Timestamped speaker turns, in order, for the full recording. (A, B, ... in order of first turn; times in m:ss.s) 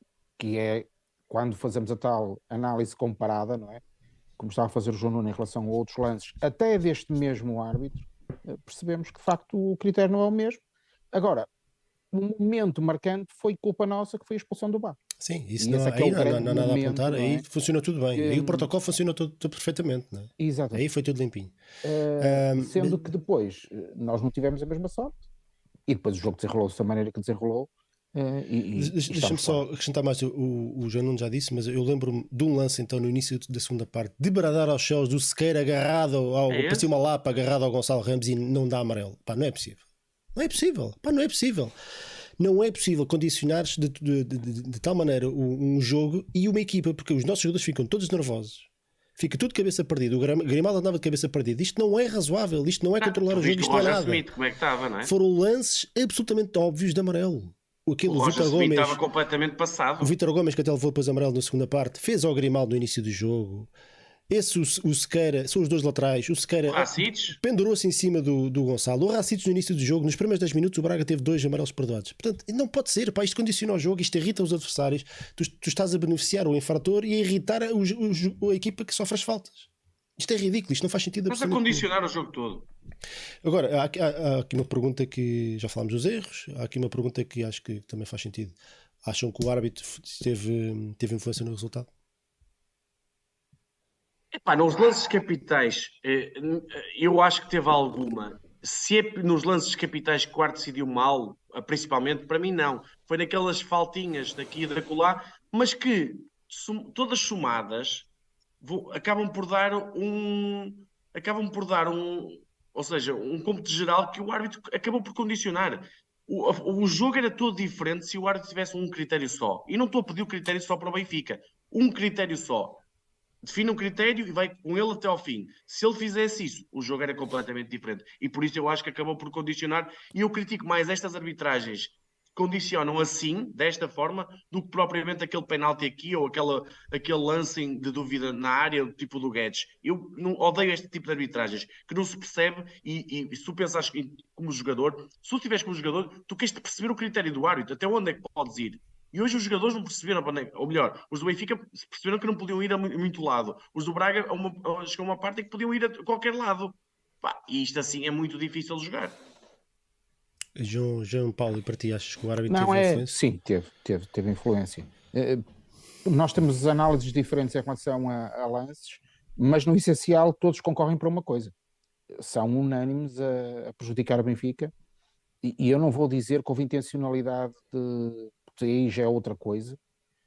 0:00.4-0:03.8 A
0:04.4-0:10.6 A
0:11.1-0:11.5 A
0:12.1-0:15.0 A
0:15.2-0:21.5 B
0:15.6-0:17.4 A
0:18.1-0:18.7 A
0:20.4-0:20.9 A
0:21.8-0:25.2 A
0:22.2-0:23.1 B
0:25.9-0:29.6 A
0:28.7-0:39.8 B
0:36.5-0:36.9 C
0:40.3-0:41.7 B
0:42.4-0:54.2 B
0:53.0-0:55.1 C
0:55.0-0:59.0 B
0:58.1-1:00.1 C
1:00.0-1:03.7 B
1:04.3-1:21.8 B
1:06.6-1:07.4 C
1:21.3-1:22.6 C
1:23.4-1:31.9 B
1:34.3-1:48.1 C
1:48.6-2:02.8 C
2:03.4-2:39.2 C
2:40.6-2:43.1 B
2:42.5-2:45.4 A
2:46.0-2:51.5 A
2:52.1-2:54.7 A
2:55.4-2:59.8 A